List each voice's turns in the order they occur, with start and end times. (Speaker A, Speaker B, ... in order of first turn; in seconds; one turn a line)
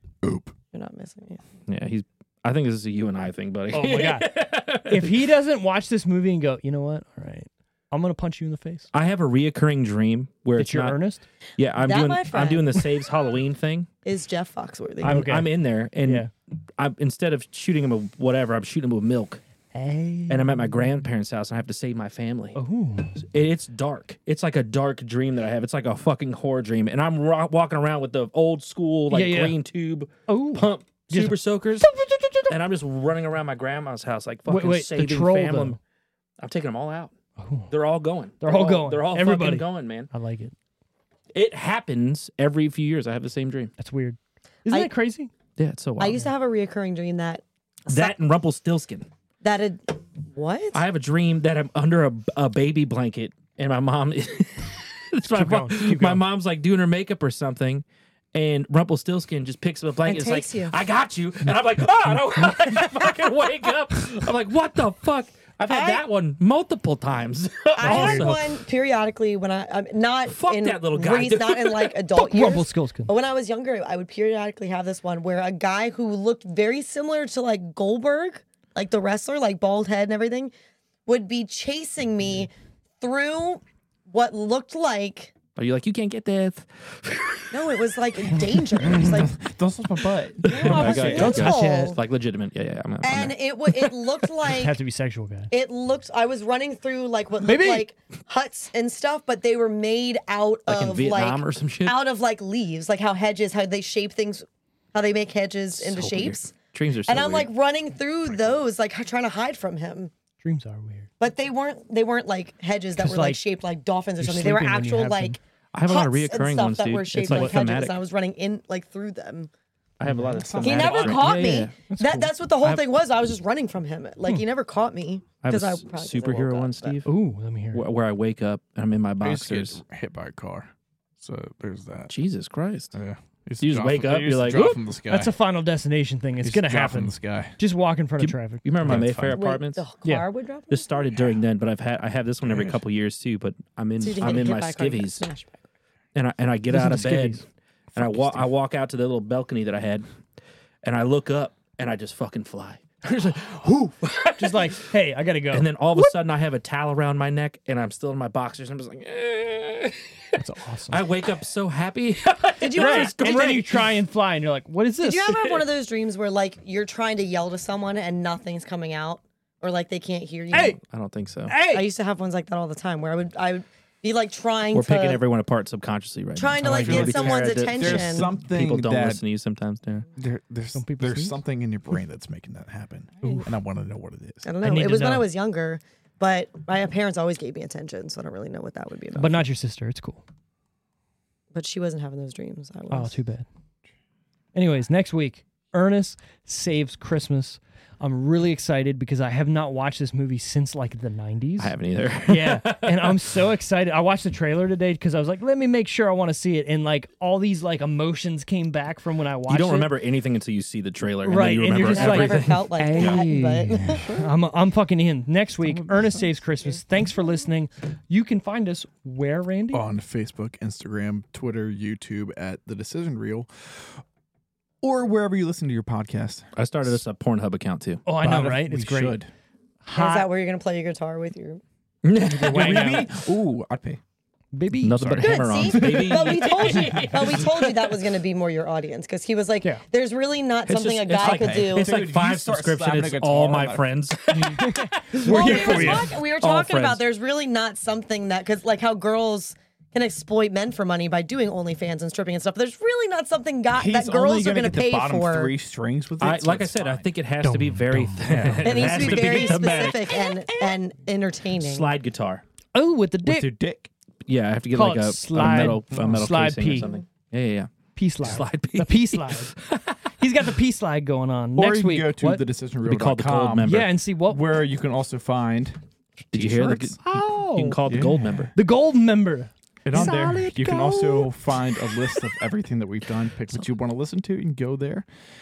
Speaker A: 0.2-0.5
Speaker B: 0.7-1.4
Speaker C: 1.7-5.1
Speaker D: 3.7-8.9
Speaker C: 8.9-11.0
Speaker D: 10.6-11.2
Speaker C: 11.6-13.9
Speaker B: 11.8-12.9
Speaker B: 14.0-15.3
Speaker D: 15.0-16.3
Speaker C: 15.0-19.4
Speaker D: 19.7-20.7
Speaker C: 20.3-22.6
Speaker D: 22.5-23.1
Speaker C: 23.2-31.9
Speaker D: 29.1-29.5
Speaker D: 30.3-32.5
Speaker C: 32.5-35.8
Speaker D: 34.5-35.8
Speaker C: 36.4-37.1
Speaker D: 37.4-37.7
Speaker C: 37.7-40.1
Speaker D: 38.4-40.5
Speaker C: 41.3-43.7
Speaker D: 43.8-45.3
Speaker C: 45.6-46.2
Speaker B: 46.0-48.1
Speaker C: 47.9-49.1
Speaker B: 49.4-50.8
Speaker C: 50.7-68.5
Speaker D: 55.2-56.2
Speaker B: 60.0-60.7
Speaker B: 65.7-66.0
Speaker B: 67.8-80.5
Speaker D: 67.8-68.4
Speaker C: 70.3-72.0
Speaker D: 72.1-73.1
Speaker B: 81.0-85.3
Speaker C: 85.5-87.8
Speaker B: 87.5-89.3
Speaker A: 88.8-91.3
Speaker B: 90.5-92.0
Speaker C: 90.5-94.1
Speaker D: 90.6-92.0
Speaker B: 93.0-94.7
Speaker D: 94.5-95.5
Speaker B: 95.5-106.5
Speaker D: 97.4-97.9
Speaker C: 100.7-102.0
Speaker C: 105.7-107.5
Speaker B: 107.1-110.1
Speaker D: 110.4-111.1
Speaker B: 111.2-119.5
Speaker D: 113.0-113.4
Speaker D: 114.2-115.4
Speaker C: 115.7-118.0
Speaker D: 117.3-117.6
Speaker C: 120.0-121.7
Speaker D: 120.0-120.4
Speaker A: 120.3-121.4
Speaker B: 120.6-127.0
Speaker D: 121.3-122.3
Speaker C: 125.4-127.1
Speaker D: 127.0-127.8
Speaker C: 127.7-129.8
Speaker A: 129.2-132.1
Speaker C: 132.1-132.9
Speaker A: 132.9-135.3
Speaker C: 133.6-134.8
Speaker D: 135.1-138.9
Speaker A: 136.4-137.5
Speaker C: 138.2-139.8
Speaker A: 138.8-139.4
Speaker B: 139.3-141.2
Speaker C: 140.7-145.2
Speaker B: 144.0-145.5
Speaker C: 146.1-150.1
Speaker D: 146.7-147.4
Speaker A: 147.9-148.5
Speaker C: 150.8-154.8
Speaker D: 154.4-156.1
Speaker C: 155.5-160.4
Speaker D: 160.4-161.0
Speaker C: 160.9-163.9
Speaker B: 162.6-163.6
Speaker D: 162.7-165.6
Speaker B: 165.0-170.8
Speaker D: 170.5-170.8
Speaker C: 170.9-171.5
Speaker D: 171.5-171.9
Speaker B: 171.6-175.2
Speaker C: 174.7-180.1
Speaker B: 176.3-178.3
Speaker A: 176.6-179.2
Speaker A: 180.2-184.4
Speaker D: 180.7-181.4
Speaker B: 184.4-189.4
Speaker D: 184.6-185.3
Speaker D: 189.1-190.2
Speaker B: 191.5-193.2
Speaker D: 192.9-193.4
Speaker D: 194.5-201.7
Speaker C: 201.6-203.2
Speaker D: 202.2-209.9
Speaker C: 209.5-212.7
Speaker D: 211.2-219.8
Speaker B: 211.8-214.1
Speaker A: 213.0-213.2
Speaker A: 213.8-214.3
Speaker A: 215.6-216.4
Speaker A: 219.7-224.0
Speaker A: 224.8-226.5
Speaker C: 226.5-228.0
Speaker D: 228.1-229.2
Speaker A: 228.2-229.3
Speaker D: 229.8-230.3
Speaker B: 229.9-231.6
Speaker C: 232.0-233.1
Speaker D: 232.2-233.1
Speaker A: 232.4-234.0
Speaker D: 234.5-235.3
Speaker C: 234.8-238.0
Speaker A: 235.1-237.3
Speaker B: 235.2-241.9
Speaker C: 240.7-247.0
Speaker A: 241.2-243.9
Speaker D: 244.3-246.1
Speaker B: 245.1-255.5
Speaker A: 245.5-245.9
Speaker A: 253.7-259.7
Speaker C: 256.2-260.1
Speaker B: 258.6-261.9
Speaker C: 261.6-262.4
Speaker D: 262.7-263.5
Speaker A: 263.2-263.9
Speaker C: 264.2-267.7
Speaker D: 264.7-266.9
Speaker A: 265.4-266.3
Speaker B: 266.8-267.0
Speaker D: 267.9-269.5
Speaker C: 268.2-270.0
Speaker D: 270.2-272.4
Speaker A: 271.6-275.8
Speaker C: 272.9-273.9
Speaker D: 273.6-274.5
Speaker A: 276.3-277.0
Speaker C: 276.3-277.0
Speaker D: 277.0-277.8
Speaker C: 277.5-278.5
Speaker A: 277.9-278.5
Speaker D: 278.5-281.3
Speaker A: 279.8-285.1